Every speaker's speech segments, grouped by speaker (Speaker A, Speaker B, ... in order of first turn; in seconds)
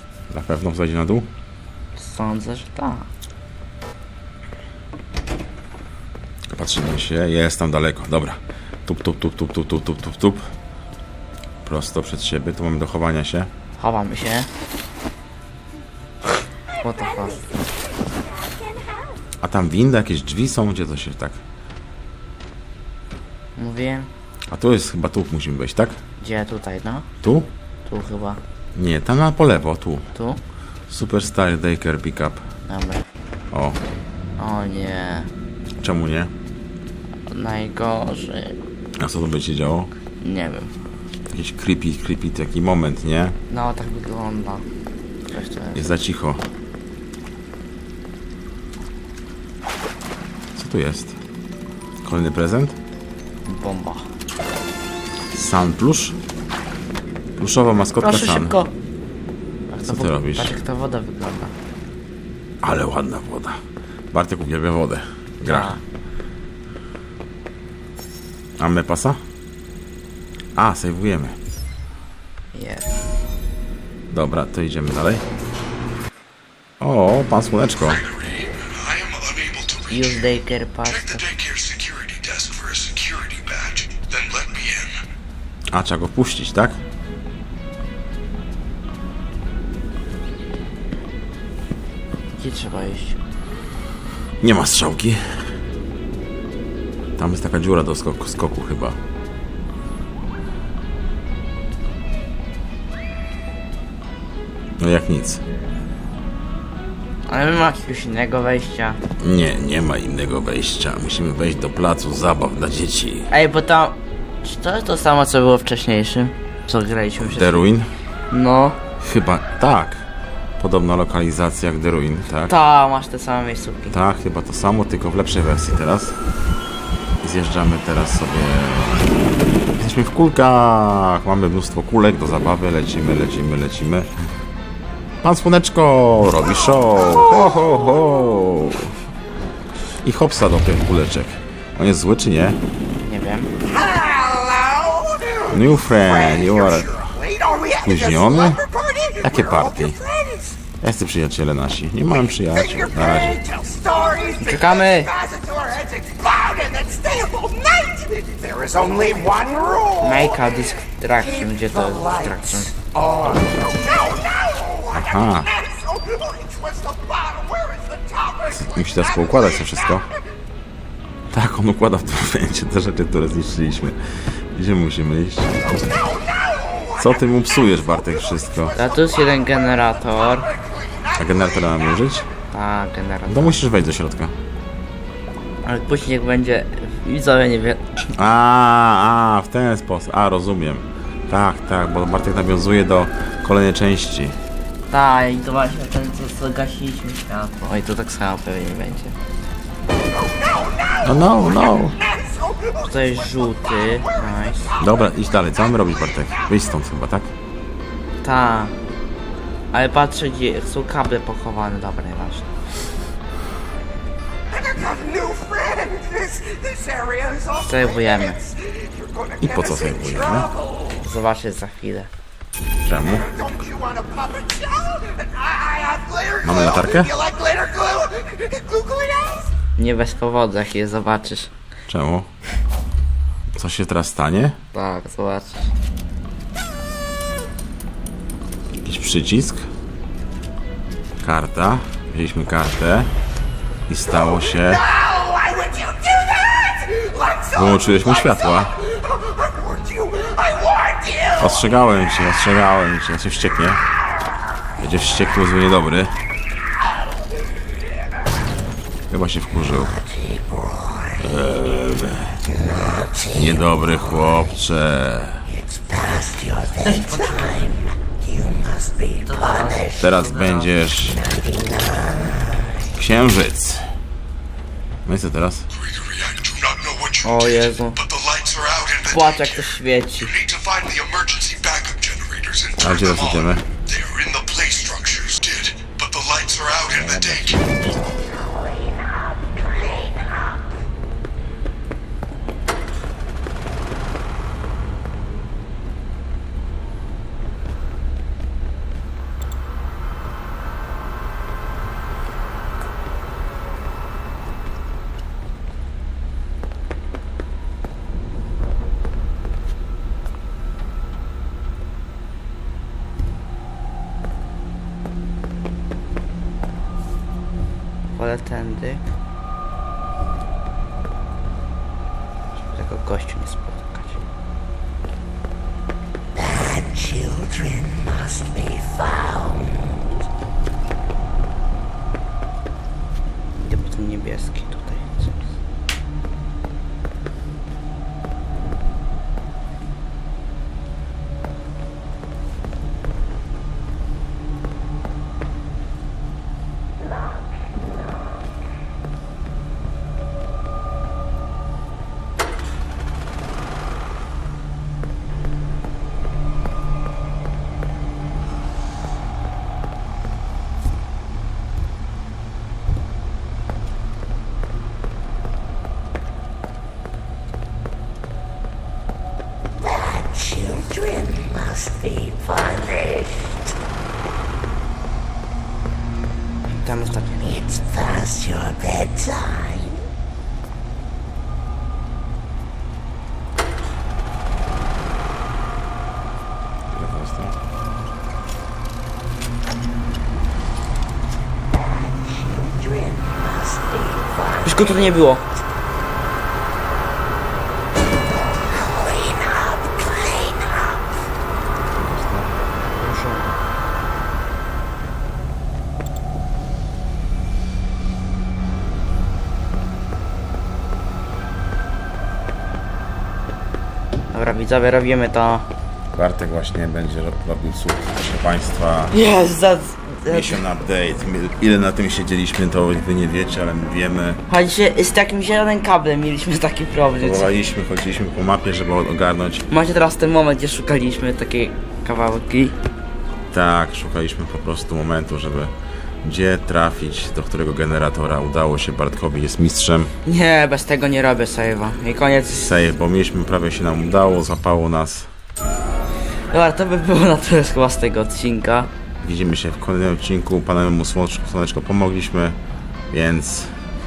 Speaker A: 0.3-1.3, 6.5-10.5, 11.6-13.5, 19.4-21.4, 24.5-26.0, 27.2-27.5, 28.8-30.1, 30.9-32.4, 33.5-33.8, 35.8-36.3, 39.0-39.9, 41.3-43.4, 45.8-46.4, 50.5-51.2, 52.0-52.8, 55.3-56.2, 57.4-58.6, 59.9-60.5, 62.6-63.6, 64.1-65.8, 68.6-69.2, 70.6-71.4, 74.1-75.2, 76.8-78.0, 85.7-86.8, 94.4-95.2, 97.2-99.0, 104.8-105.4, 109.2-113.3, 117.2-117.9, 119.0-120.0, 120.6-122.5, 123.9-126.2, 127.2-129.0, 129.8-134.1, 135.2-139.0, 140.0-142.6, 145.4-147.1, 147.8-150.0, 150.8-153.4, 164.9-165.5, 168.5-170.1, 171.3-175.6, 176.9-178.8, 181.2-182.3, 183.3-184.3, 188.2-194.4, 201.0-202.0, 204.8-207.3, 219.4-220.5, 222.8-223.4, 226.4-227.2, 231.9-232.3, 233.6-234.6, 238.8-239.7, 241.2-243.1, 243.9-244.9, 247.5-248.8, 251.4-253.8, 254.8-256.2, 259.1-260.0, 261.2-262.5, 263.1-265.5, 270.0-271.3, 272.9-273.9, 275.1-275.7, 282.8-283.7, 287.1-287.8, 386.9-387.6, 402.0-402.5, 416.1-419.1, 420.3-424.4, 427.2-429.7, 433.5-440.1, 442.5-445.3, 449.2-452.6, 453.1-453.8
Speaker B: 2.0-3.1, 13.8-14.5, 16.8-17.5, 23.6-24.1, 26.2-27.1, 27.9-28.4, 30.1-30.4, 32.7-33.0, 34.4-35.3, 37.3-38.6, 40.2-40.7, 43.5-44.6, 45.3-45.8, 53.5-54.1, 58.0-58.7, 59.7-61.5, 65.4-65.8, 72.5-72.9, 79.9-81.2, 92.4-93.2, 107.3-109.0, 113.3-117.6, 118.3-118.8, 122.5-124.0, 143.0-143.5, 154.4-155.1, 160.0-162.8, 178.8-180.5, 182.5-183.6, 185.6-187.9, 194.9-199.2, 202.8-204.8, 208.2-208.8, 209.7-212.5, 217.5-218.4, 221.0-222.1, 229.8-231.5, 234.7-235.7, 266.8-267.8, 269.1-270.7, 277.2-278.0, 279.1-280.3, 318.2-319.0, 322.7-324.2, 333.6-335.5, 376.7-378.2, 394.6-395.4, 402.9-403.5, 414.3-415.7, 419.1-420.6, 424.5-427.5, 429.7-432.8, 440.2-442.7, 446.5-448.9
Speaker C: 77.9-80.2, 80.9-85.0, 275.7-287.6
Speaker D: 143.8-145.4, 147.3-147.8, 148.7-149.2, 150.1-150.5, 153.3-154.4, 155.2-159.9, 162.9-164.9, 165.7-168.5, 214.6-217.5, 218.6-219.4, 223.4-226.5, 227.2-229.4, 245.0-247.5, 249.4-251.3
Speaker E: 265.9-266.8, 268.3-269.2, 326.4-329.8, 369.8-373.5, 377.9-380.0, 392.3-394.5, 399.1-400.8